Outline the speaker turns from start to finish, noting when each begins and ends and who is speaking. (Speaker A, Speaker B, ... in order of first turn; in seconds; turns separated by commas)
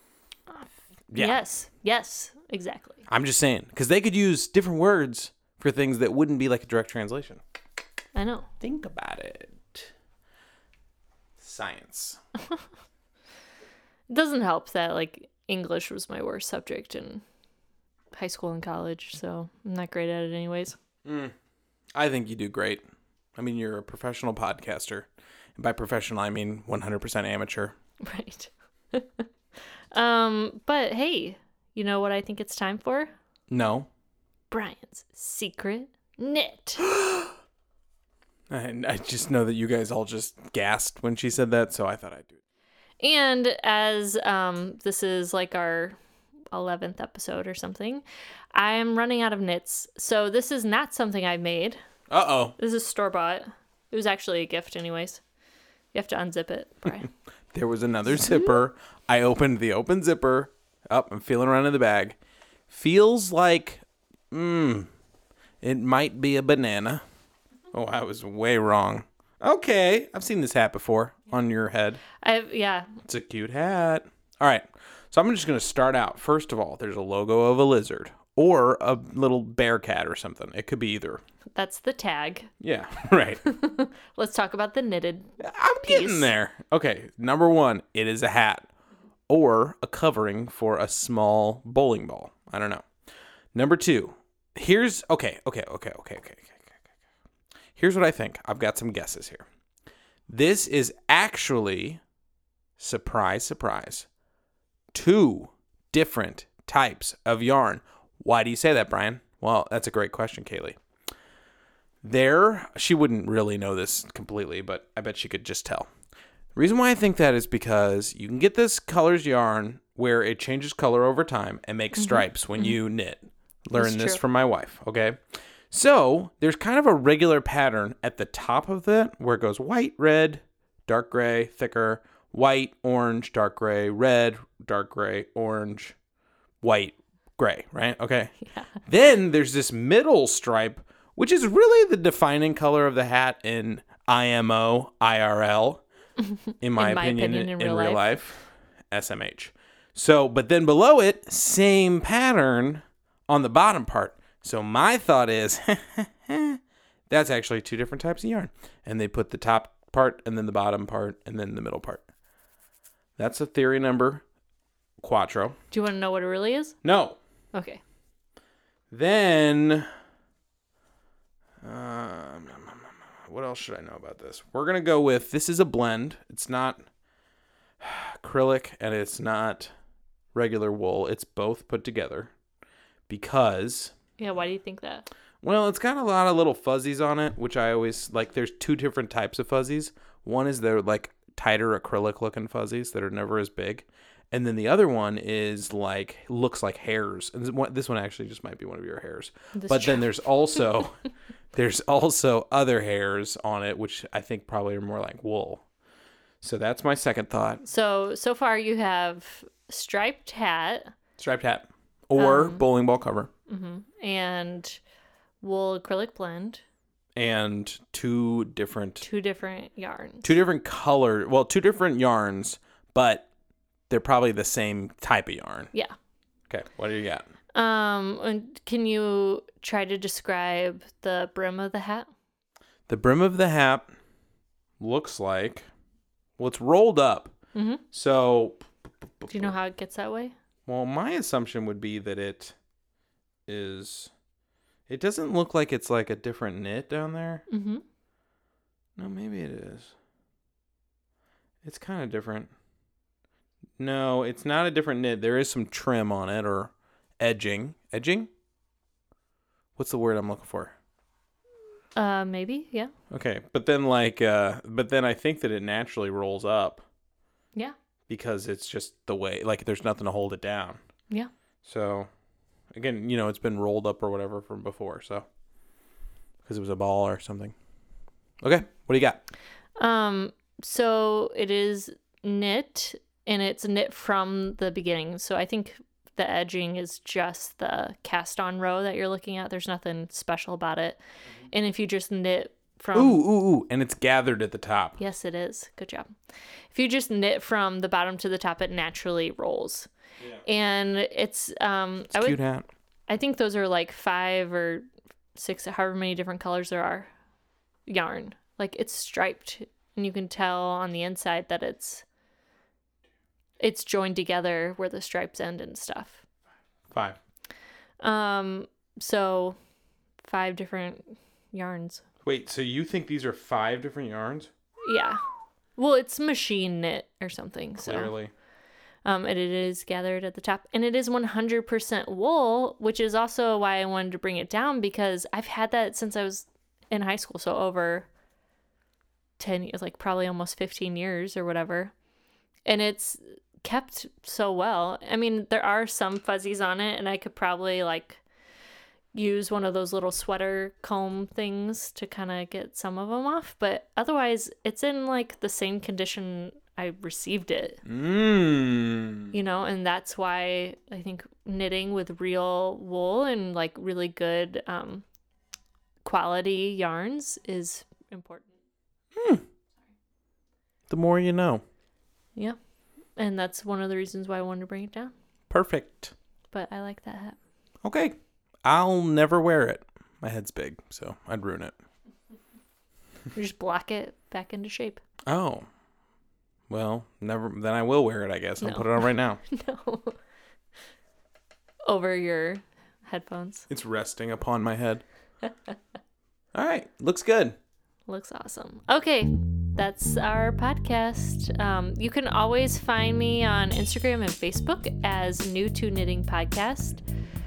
Speaker A: 0.5-3.0, Speaker B: 1.1-1.4, Speaker B: 3.1-7.4, Speaker A: 8.2-8.5, Speaker B: 8.6-9.9, Speaker B: 11.4-12.2, Speaker A: 14.1-17.2, Speaker A: 18.1-20.8, Speaker B: 21.1-21.3, Speaker B: 21.9-22.8, Speaker B: 23.4-27.8, Speaker A: 28.0-29.2, Speaker A: 29.9-33.1, Speaker B: 33.5-33.9, Speaker A: 34.5-36.9, Speaker B: 36.8-37.3, Speaker B: 38.5-42.4, Speaker A: 43.0-46.0, Speaker A: 46.5-48.0, Speaker A: 48.5-51.8, Speaker B: 52.1-52.5, Speaker A: 52.6-55.2, Speaker A: 55.9-57.1, Speaker B: 57.5-62.2, Speaker B: 62.7-64.9, Speaker B: 65.6-67.0, Speaker B: 67.7-72.0, Speaker A: 72.2-73.0, Speaker B: 73.0-81.2, Speaker A: 81.5-82.5, Speaker B: 82.6-83.4, Speaker A: 83.4-86.3, Speaker B: 85.4-88.7, Speaker B: 89.3-92.8, Speaker B: 93.5-96.8, Speaker B: 97.8-99.5, Speaker B: 100.3-102.0, Speaker B: 102.8-104.1, Speaker B: 104.9-110.8, Speaker B: 112.0-115.9, Speaker B: 116.5-125.2, Speaker A: 122.0-122.8, Speaker A: 123.8-124.2, Speaker B: 125.7-136.0, Speaker B: 136.6-138.3, Speaker A: 138.5-138.8, Speaker B: 138.8-145.8, Speaker A: 146.2-148.1, Speaker B: 146.6-162.1, Speaker B: 163.2-164.2, Speaker B: 165.0-165.6, Speaker A: 165.7-166.8, Speaker B: 166.8-167.2, Speaker A: 167.5-167.8, Speaker B: 168.9-169.9, Speaker B: 171.6-176.8, Speaker B: 177.8-179.7, Speaker B: 180.3-182.3, Speaker B: 183.1-183.9, Speaker A: 184.2-185.1, Speaker B: 185.4-201.0, Speaker A: 199.5-200.1, Speaker B: 201.5-205.6, Speaker B: 206.4-207.6, Speaker A: 207.6-210.9, Speaker B: 211.2-213.3, Speaker A: 212.2-212.7, Speaker A: 213.5-214.8, Speaker A: 215.4-216.6, Speaker B: 217.2-219.0, Speaker A: 219.0-220.4, Speaker B: 220.2-223.3, Speaker B: 223.9-225.7, Speaker B: 226.5-227.3, Speaker A: 227.6-232.1, Speaker B: 232.9-233.9, Speaker B: 234.8-235.7, Speaker B: 236.4-237.3, Speaker A: 237.5-237.8, Speaker B: 237.9-239.6, Speaker A: 239.3-240.3, Speaker B: 240.7-242.6, Speaker B: 243.5-244.1, Speaker B: 244.9-247.4, Speaker A: 247.5-247.8, Speaker B: 249.0-249.9, Speaker B: 251.6-252.5, Speaker B: 253.8-258.3, Speaker B: 259.8-260.8, Speaker A: 262.0-262.9, Speaker B: 263.1-266.8, Speaker B: 268.1-270.8, Speaker B: 271.6-272.1, Speaker B: 272.7-275.3, Speaker B: 276.4-277.5, Speaker B: 278.4-279.2, Speaker A: 279.8-291.0, Speaker A: 291.5-293.2, Speaker B: 292.9-295.0, Speaker A: 295.0-296.1, Speaker A: 296.7-299.9, Speaker A: 300.5-302.4, Speaker B: 302.1-302.7, Speaker A: 303.1-307.1, Speaker A: 307.9-312.0, Speaker A: 313.6-316.2, Speaker B: 316.9-317.2, Speaker A: 318.0-319.6, Speaker A: 320.2-322.0, Speaker B: 322.2-324.5, Speaker A: 324.8-325.2, Speaker A: 325.8-328.1, Speaker B: 327.8-328.3, Speaker A: 329.1-338.1, Speaker A: 339.4-341.9, Speaker A: 342.7-348.2, Speaker A: 349.1-357.8, Speaker B: 357.9-359.3, Speaker A: 359.3-365.1, Speaker A: 366.1-368.5, Speaker B: 369.1-369.4, Speaker B: 370.9-371.6, Speaker A: 373.2-375.1, Speaker B: 375.5-376.1, Speaker A: 376.5-377.4, Speaker B: 377.8-381.7, Speaker A: 383.3-385.0, Speaker B: 385.3-385.7, Speaker B: 386.7-389.4, Speaker A: 388.6-390.2, Speaker A: 391.9-393.7, Speaker B: 393.7-395.0, Speaker B: 396.6-397.6, Speaker A: 398.1-407.0